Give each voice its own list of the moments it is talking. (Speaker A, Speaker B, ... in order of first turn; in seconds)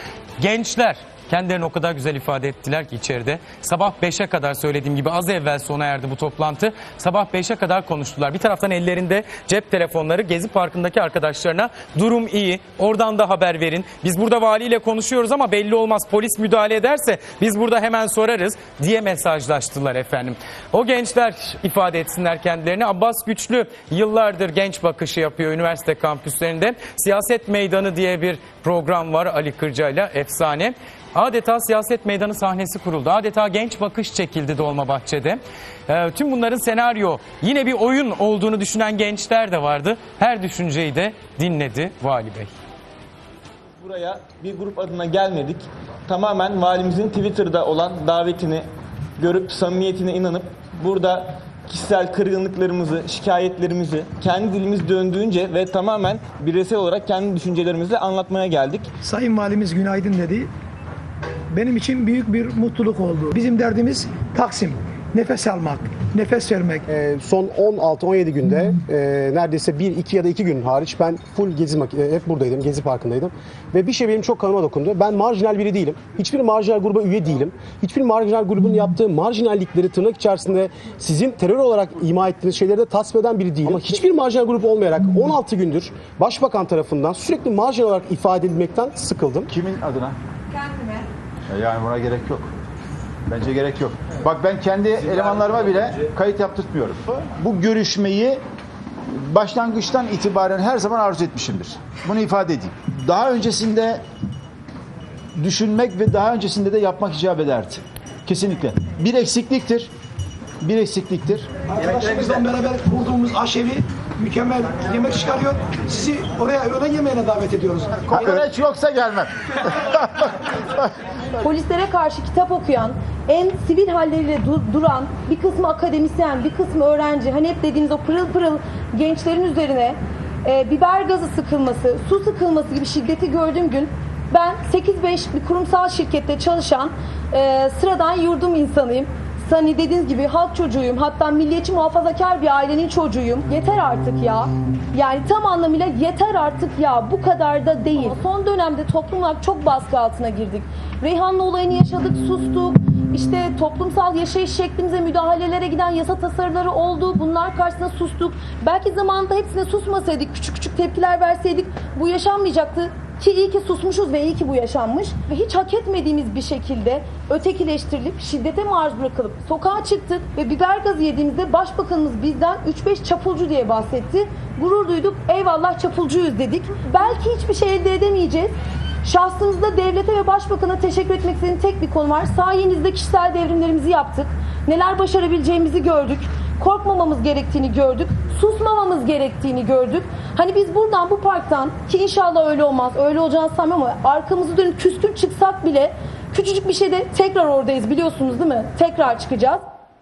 Speaker A: 0.4-42.5
Speaker B: 43.8-48.6, 49.2-58.9
Speaker C: 59.0-60.5, 61.5-66.8, 111.7-118.3
Speaker D: 66.9-89.5
Speaker E: 89.5-90.2, 91.5-92.5, 93.3-98.4, 99.1-104.0, 105.4-109.9, 110.6-111.5, 118.1-120.8
Speaker F: 121.4-199.6